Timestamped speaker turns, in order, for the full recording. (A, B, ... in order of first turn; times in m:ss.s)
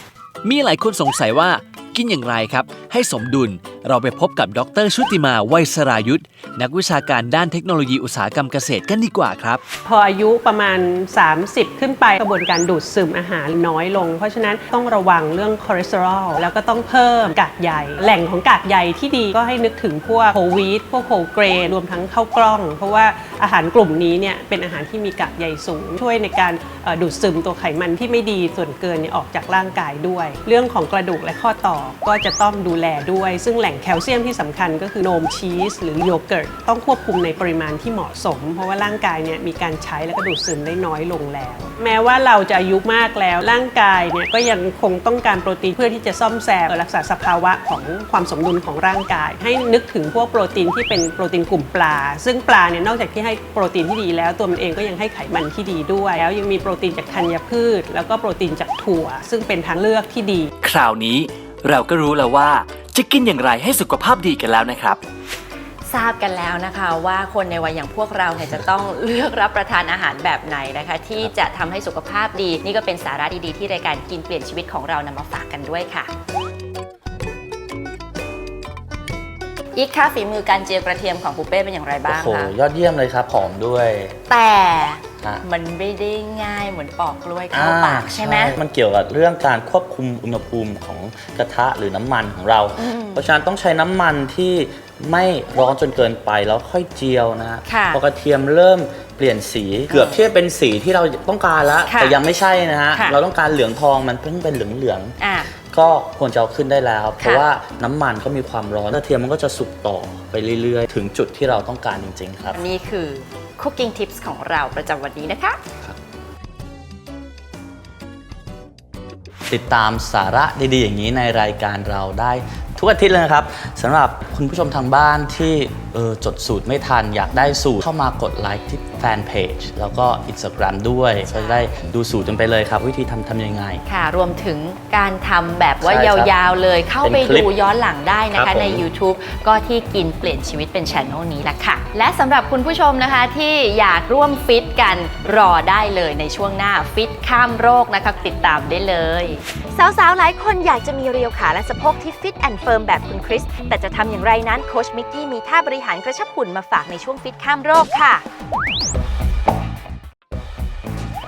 0:00.4-0:09.6 A
0:09.8-1:00.5 B
1:00.6-1:05.0 A
1:05.9-1:16.1 C
1:19.8-1:22.5 C
1:22.1-1:24.2 D
1:24.3-1:28.6 C
1:27.5-1:45.2 D
1:32.8-1:33.2 C
1:37.7-1:38.0 C
1:39.9-1:40.2 C
1:41.9-1:42.2 C
1:45.2-1:45.5 C
1:45.7-1:52.6 D
1:47.2-1:47.5 C
1:52.5-1:55.6 C
1:59.5-2:13.8 D
2:11.3-2:11.7 C
2:13.9-2:38.2 C
2:15.8-2:16.3 D
2:17.0-2:17.5 D
2:18.3-2:18.8 D